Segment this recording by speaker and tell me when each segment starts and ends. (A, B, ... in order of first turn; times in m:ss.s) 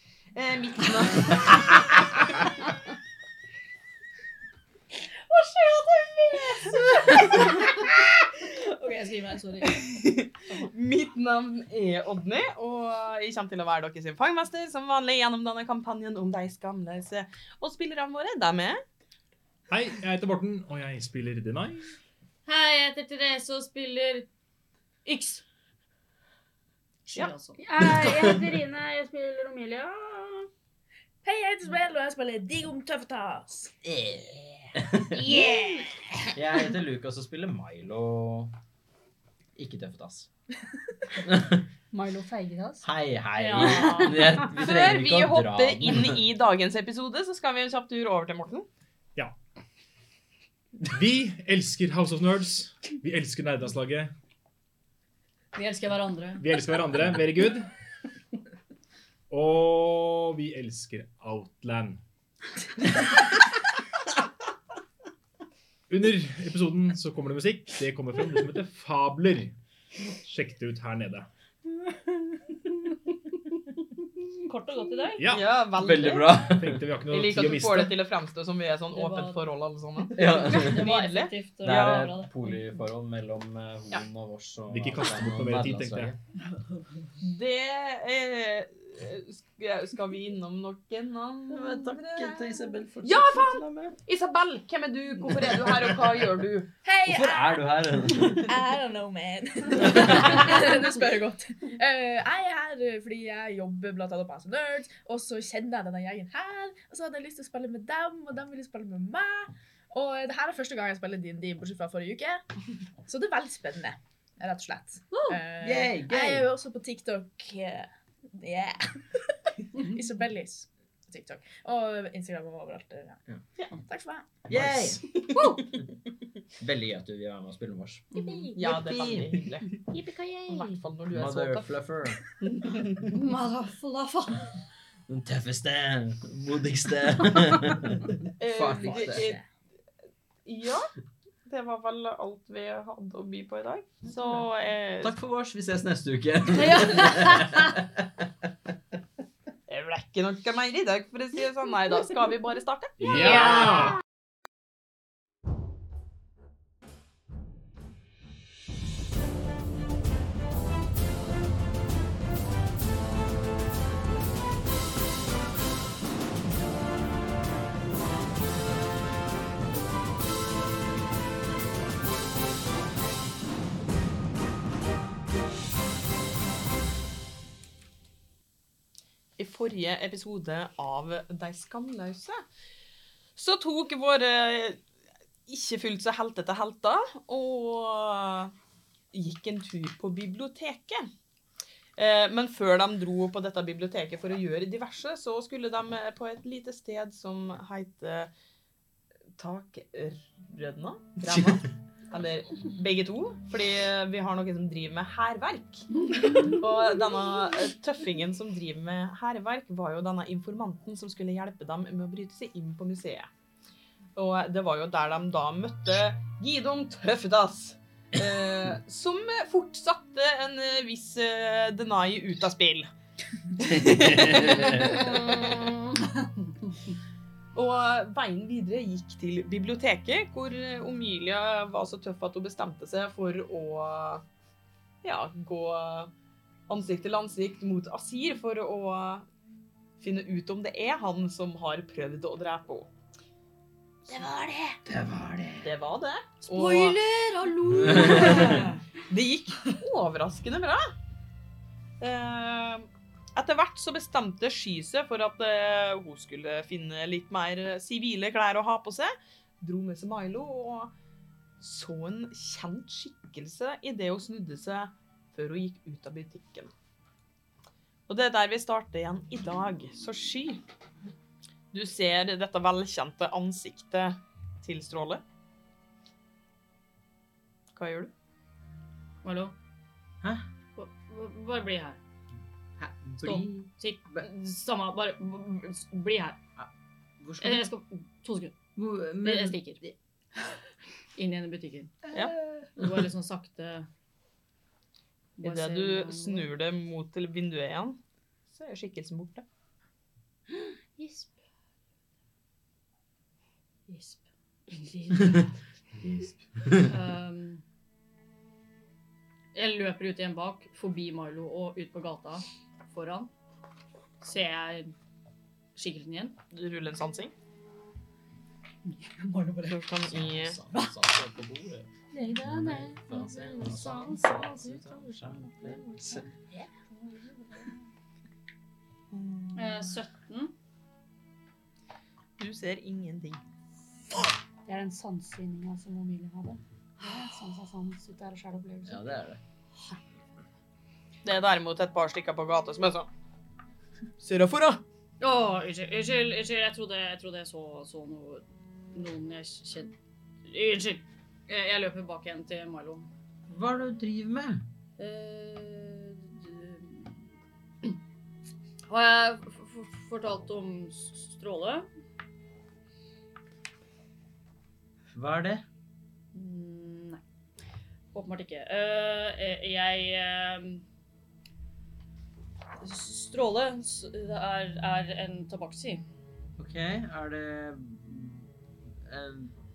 0:00.3-0:01.9 A
0:05.3-0:07.4 A
0:06.9-0:07.8 B
0:08.5-0:10.0 B
0:09.6-0:18.8 A
0:19.7-0:22.0 C
0:22.4-0:24.3 B
0:25.0-0:25.4 B
0:27.0-0:27.6 B
0:27.6-0:30.5 D
0:27.8-0:28.5 E
0:31.2-0:33.7 F
0:33.8-0:35.4 E
0:35.1-0:35.9 F
0:35.2-0:36.2 D
0:36.3-0:38.5 E
0:39.6-0:40.3 E
0:41.1-0:41.6 E
0:41.9-0:42.8 D
0:42.8-0:46.2 E
0:43.3-0:44.4 B
0:43.6-0:44.5 D
0:44.5-0:48.7 A
0:50.8-0:54.1 C
0:55.5-0:56.4 B
0:56.4-0:57.7 C
0:59.3-1:02.0 C
1:05.9-1:09.5 C
1:10.0-1:11.3 C
1:14.4-1:15.2 B
1:15.2-1:15.5 C
1:15.2-1:16.4 A
1:15.8-1:16.9 E
1:16.5-1:18.0 C
1:17.1-1:22.1 A
1:18.9-1:19.4 B
1:20.1-1:20.9 E
1:20.2-1:22.3 B
1:21.6-1:26.2 E
1:24.7-1:26.1 C
1:27.2-1:32.3 A
1:31.5-1:33.9 E
1:33.0-1:36.7 A
1:36.8-1:52.4 F
1:37.0-1:38.5 E
1:39.8-1:40.4 E
1:53.0-2:03.2 F
1:55.1-1:55.4 B
1:55.6-1:56.5 E
2:03.8-2:04.4 F
2:04.5-2:05.0 E
2:05.1-2:05.6 A
2:05.3-2:05.6 B
2:06.6-2:08.1 E
2:08.1-2:08.6 F
2:08.2-2:08.4 D
2:08.5-2:09.8 A
2:08.6-2:09.4 E
2:09.9-2:10.8 D
2:10.5-2:11.7 A
2:11.1-2:12.2 E
2:12.4-2:13.0 A
2:13.0-2:14.5 B
2:15.1-2:19.3 E
2:18.4-2:19.4 A
2:18.8-2:19.4 F
2:20.4-2:20.9 A
2:21.4-2:25.1 A
2:25.0-2:28.5 E
2:26.5-2:27.8 B
2:29.7-2:33.7 A
2:33.0-2:34.0 C
2:59.4-3:02.4 A
3:03.4-3:04.8 A
3:05.5-3:08.5 A
3:09.1-3:11.1 A
3:12.0-3:18.3 A
3:19.4-3:33.3 A
3:21.3-3:21.6 E
3:34.2-3:42.9 A
3:43.6-3:45.6 A
3:43.6-3:45.0 E
3:44.8-3:46.9 B
3:47.5-3:54.2 A
3:55.0-3:56.1 A
3:56.7-3:59.3 A
4:00.0-4:02.9 A
4:04.1-4:04.8 D
4:04.8-4:05.7 E
4:05.6-4:07.0 A
4:06.5-4:08.8 B
4:07.7-4:08.7 E
4:09.1-4:10.9 A
4:12.0-4:20.9 A
4:21.6-4:26.7 A
4:28.1-4:30.6 A
4:31.7-4:35.2 A
4:37.7-4:38.1 A
4:39.2-4:39.5 B
4:40.2-4:40.5 E
4:40.8-4:42.0 B
4:42.8-4:44.3 E
4:43.2-4:46.4 B
4:46.6-4:47.7 E
4:47.4-4:48.6 B
4:48.8-4:50.0 E
4:49.2-4:49.8 B
4:51.2-4:52.1 B
4:52.1-4:52.9 E
4:52.7-4:53.9 B
4:55.4-4:56.5 B
4:55.4-4:58.0 A
4:58.5-4:59.4 A
5:01.0-5:01.3 D
5:03.9-5:05.5 B
5:06.0-5:06.9 E
5:06.8-5:07.6 B
5:09.5-5:13.3 B
5:14.2-5:14.9 B
5:15.8-5:16.4 B
5:16.5-5:17.3 A
5:19.0-5:19.7 B
5:19.6-5:20.6 A
5:20.0-5:21.9 E
5:22.1-5:25.8 D
5:22.4-5:26.2 E
5:26.5-5:27.1 D
5:29.5-5:30.5 B
5:32.4-5:33.4 A
5:34.6-5:39.1 D
5:38.8-5:39.4 E
5:41.2-5:43.1 A
5:44.2-5:44.8 A
5:45.2-5:48.4 B
5:48.9-5:49.9 B
5:50.4-5:53.1 B
5:53.5-5:54.6 E
5:55.0-5:57.2 B
5:58.9-6:01.9 B
6:05.1-6:05.6 E
6:06.3-6:07.2 B
6:08.1-6:10.8 B
6:12.8-6:16.0 B
6:16.6-6:18.5 E
6:19.0-6:19.5 E